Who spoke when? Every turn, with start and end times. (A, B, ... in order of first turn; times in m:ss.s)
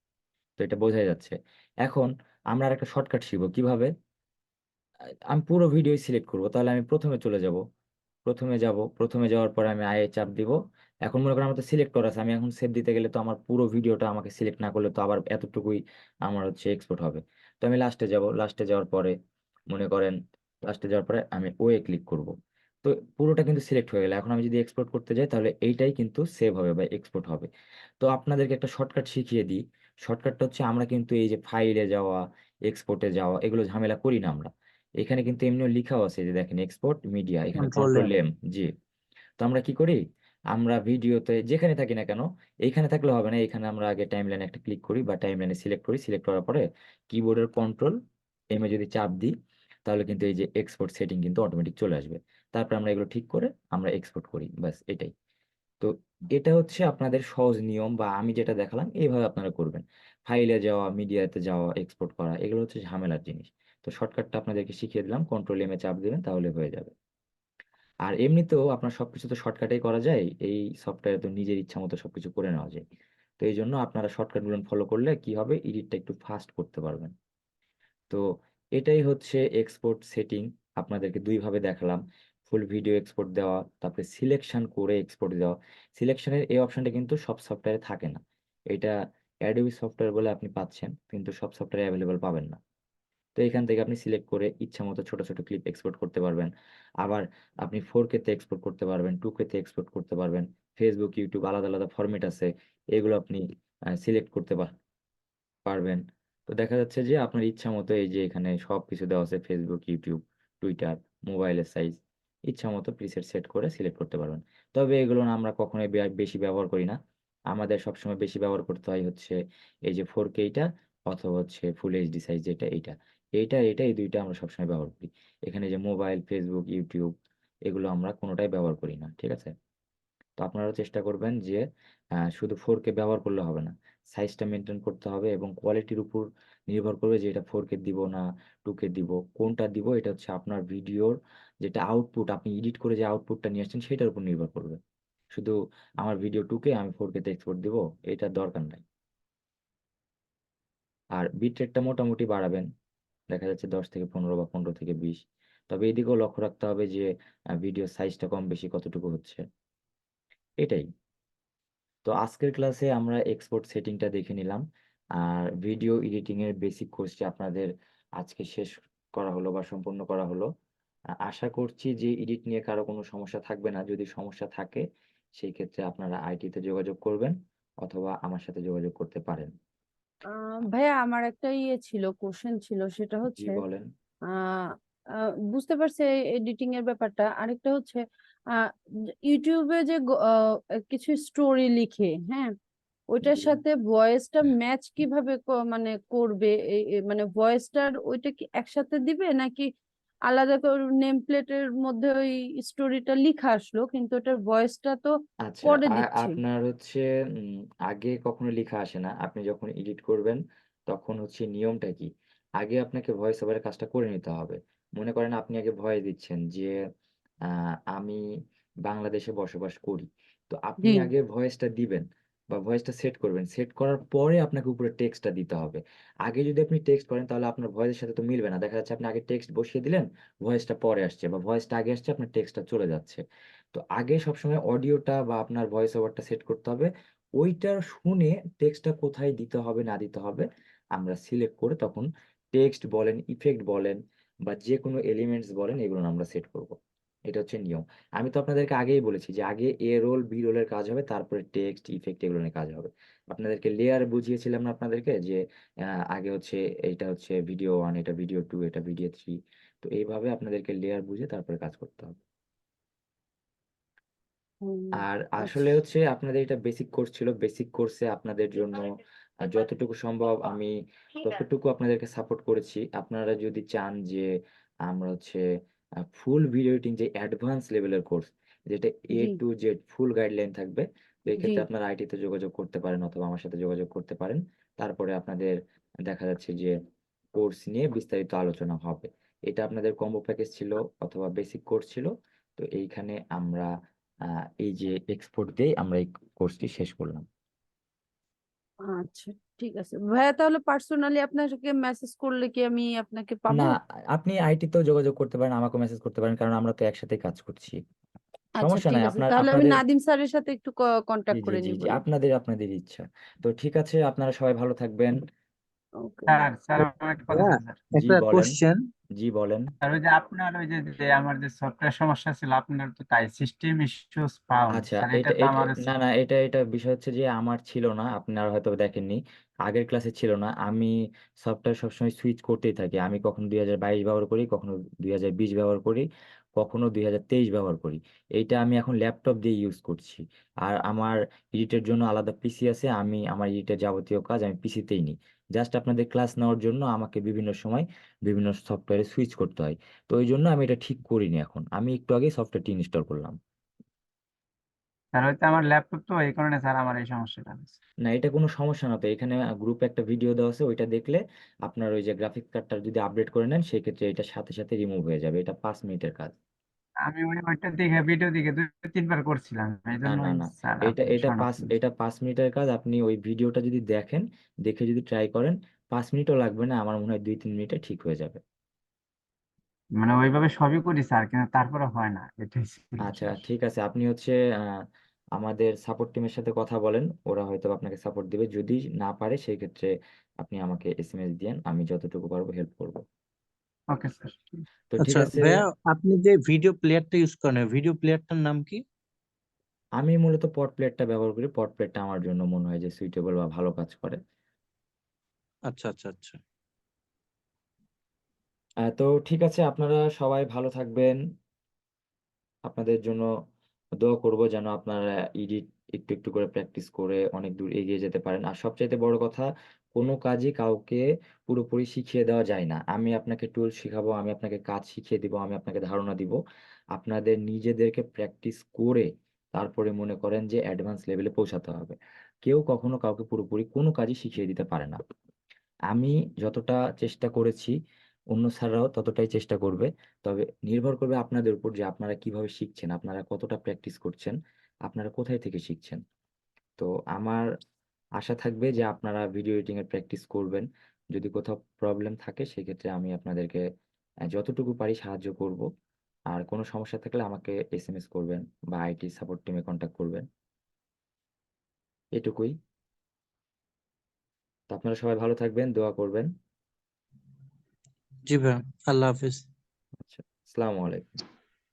0:00.6-0:03.9 A
0:05.3-0:07.6 A
0:08.3-0:10.6 A
0:11.1-0:19.1 A
0:19.7-0:20.2 A
0:20.7-0:22.3 A
0:22.8-0:27.5 A
0:28.0-0:34.5 A
0:35.0-0:38.7 A
0:37.6-0:38.2 B
0:39.4-0:40.0 A
0:40.5-0:47.9 A
0:48.5-0:49.3 A
0:49.9-0:55.1 A
0:55.8-1:06.9 A
1:08.1-1:12.8 A
1:13.4-1:17.1 A
1:18.8-1:28.2 A
1:29.5-1:32.6 A
1:33.4-1:36.5 A
1:37.0-1:43.4 A
1:44.0-1:44.7 A
1:45.7-1:52.0 A
1:52.5-1:57.0 A
1:57.5-1:59.4 A
1:59.9-2:07.1 A
2:07.7-2:09.5 A
2:10.4-2:11.6 A
2:12.2-2:24.8 A
2:25.3-2:28.8 A
2:31.2-2:32.7 A
2:33.3-2:37.1 A
2:37.6-2:39.4 A
2:40.6-2:40.9 A
2:42.0-2:44.6 A
2:45.2-2:47.7 A
2:48.2-2:50.5 A
2:51.3-2:54.8 A
2:55.4-2:59.5 A
3:00.3-3:03.6 C
3:03.3-3:03.8 A
3:04.3-3:04.7 C
3:05.5-3:08.0 C
3:09.3-3:12.5 C
3:13.1-3:16.5 C
3:13.2-3:13.6 A
3:17.1-3:19.7 C
3:20.3-3:25.1 C
3:25.4-3:36.8 A
3:25.6-3:26.4 C
3:37.5-3:38.2 A
3:38.8-3:53.2 A
3:40.8-3:41.1 C
3:53.7-4:00.5 A
4:01.0-4:06.8 A
4:07.3-4:15.4 A
4:16.1-4:22.2 A
4:24.6-4:25.7 C
4:25.0-4:28.9 A
4:29.4-4:30.7 A
4:31.2-4:34.3 A
4:34.9-4:35.4 A
4:36.1-4:45.6 A
4:41.4-4:41.7 C
4:46.1-4:46.8 A
4:47.4-4:53.7 A
4:54.6-4:57.2 A
4:58.9-5:03.7 C
5:03.5-5:07.8 A
5:08.6-5:12.0 C
5:08.6-5:09.8 A
5:11.3-5:15.2 A
5:16.0-5:16.4 C
5:16.3-5:17.9 D
5:16.8-5:18.9 B
5:18.0-5:18.6 A
5:19.2-5:19.7 A
5:19.8-5:25.9 D
5:24.7-5:36.0 A
5:36.6-5:53.4 A
5:55.1-5:57.8 D
5:58.0-6:06.3 A
6:07.1-6:11.8 D
6:10.0-6:18.4 A
6:20.0-6:23.2 D
6:23.0-6:24.8 A
6:25.4-6:33.0 A
6:33.9-6:34.6 D
6:34.9-6:35.6 A
6:35.0-6:38.8 B
6:40.0-6:44.2 A
6:45.7-6:46.4 B
6:48.8-6:51.2 A
6:52.7-6:53.3 A
6:54.0-7:06.4 A
7:07.0-7:15.0 A
7:15.9-7:17.7 A
7:18.3-7:24.4 A
7:24.9-7:26.0 A
7:26.8-7:27.4 A
7:28.2-7:33.6 A
7:34.3-7:35.7 A
7:36.3-7:40.2 A
7:42.2-7:42.6 A
7:44.7-7:46.3 A
7:48.3-7:49.4 B
7:50.0-7:51.0 A